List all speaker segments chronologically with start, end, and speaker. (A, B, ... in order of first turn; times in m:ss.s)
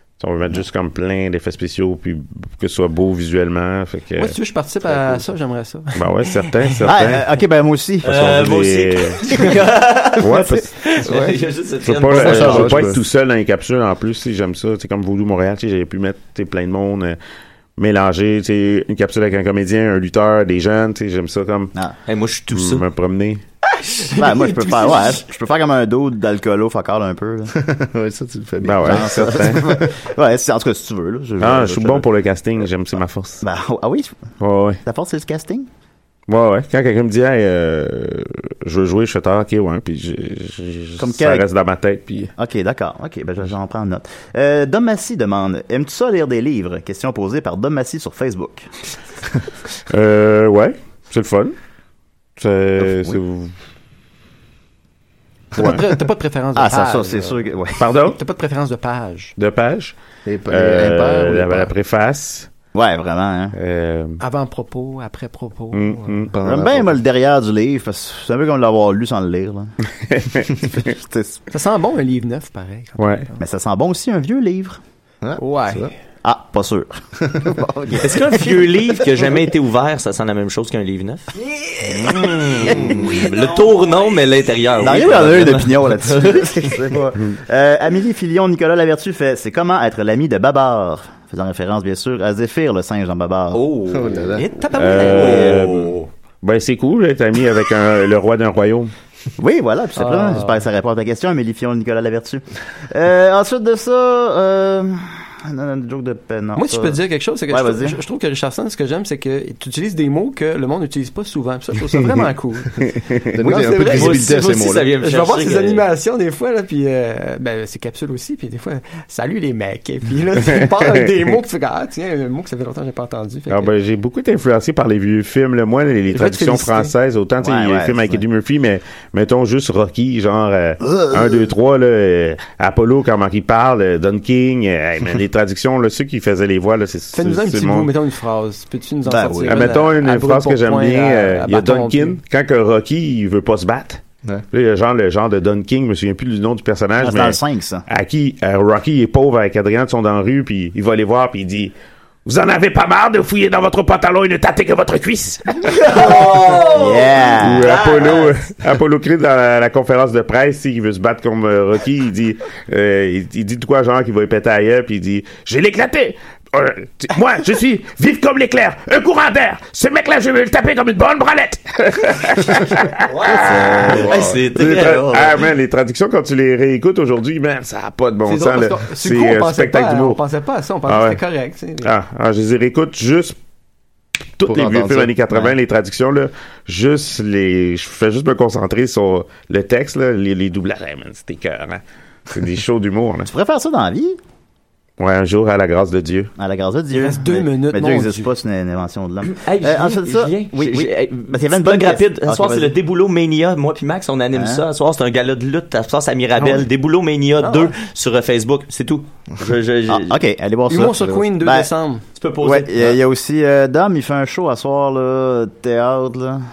0:00.2-0:04.3 A
0:04.2-0:06.9 B
0:04.9-0:05.2 A
0:06.0-0:07.3 A
0:06.8-0:08.3 C
0:08.0-0:09.2 A
0:08.0-0:12.9 D
0:10.2-0:10.7 A
0:11.0-0:11.4 B
0:11.8-0:17.2 A
0:12.1-0:13.0 E
0:17.8-0:21.7 A
0:22.1-0:22.8 D
0:22.5-0:23.4 A
0:23.8-0:25.1 D
0:24.1-0:27.5 C
0:27.6-0:29.9 E
0:28.6-0:29.8 A
0:28.8-0:32.1 C
0:31.4-0:33.4 A
0:33.4-0:34.1 C
0:34.4-0:34.8 A
0:34.8-0:35.7 C
0:36.3-0:42.3 A
0:41.0-0:41.4 C
0:42.4-0:48.6 C
0:49.9-0:51.5 A
0:52.4-0:53.5 A
0:52.8-0:53.2 C
0:55.6-0:55.8 A
0:55.6-0:57.4 B
0:56.5-0:57.8 C
0:57.8-0:58.2 A
0:58.0-0:59.3 B
0:59.4-1:00.0 A
1:00.2-1:01.7 E
1:00.5-1:02.5 A
1:02.7-1:03.6 C
1:03.6-1:04.2 A
1:04.2-1:06.2 B
1:05.7-1:06.3 A
1:06.3-1:07.0 E
1:06.4-1:09.7 C
1:10.0-1:10.9 A
1:10.8-1:11.4 C
1:11.5-1:13.4 B
1:13.0-1:13.3 A
1:13.4-1:14.8 C
1:15.2-1:15.9 E
1:15.4-1:15.9 B
1:16.2-1:18.7 C
1:18.0-1:21.3 D
1:21.6-1:23.0 C
1:21.9-1:26.8 D
1:24.8-1:33.7 C
1:33.5-1:36.1 D
1:33.9-1:34.5 E
1:34.4-1:35.5 B
1:34.8-1:38.9 A
1:39.4-1:47.0 C
1:40.0-1:40.6 B
1:46.5-1:54.3 B
1:47.5-1:48.0 C
1:53.3-1:54.9 E
1:53.8-1:55.8 D
1:55.0-2:03.7 B
2:00.6-2:01.1 A
2:03.5-2:17.9 A
2:06.1-2:06.9 B
2:07.4-2:08.2 C
2:10.8-2:11.4 C
2:17.1-2:22.2 B
2:19.0-2:19.7 C
2:19.4-2:24.0 A
2:24.5-2:31.7 A
2:27.0-2:27.8 C
2:32.2-2:36.0 A
2:35.6-2:38.4 D
2:36.7-2:37.8 C
2:37.4-3:00.2 A
2:53.1-2:55.4 D
2:53.4-2:54.4 E
2:53.5-2:54.1 C
2:58.2-3:01.9 B
3:00.9-3:01.2 A
3:01.8-3:03.4 A
3:04.4-3:13.3 A
3:04.4-3:05.2 E
3:13.3-3:14.2 C
3:15.0-3:16.3 A
3:16.4-3:22.7 C
3:16.9-3:18.3 B
3:19.2-3:30.2 D
3:24.3-3:24.6 C
3:26.4-3:26.7 B
3:27.4-3:27.7 B
3:29.9-3:31.7 C
3:30.7-3:32.0 B
3:32.2-3:33.0 D
3:32.4-3:36.4 C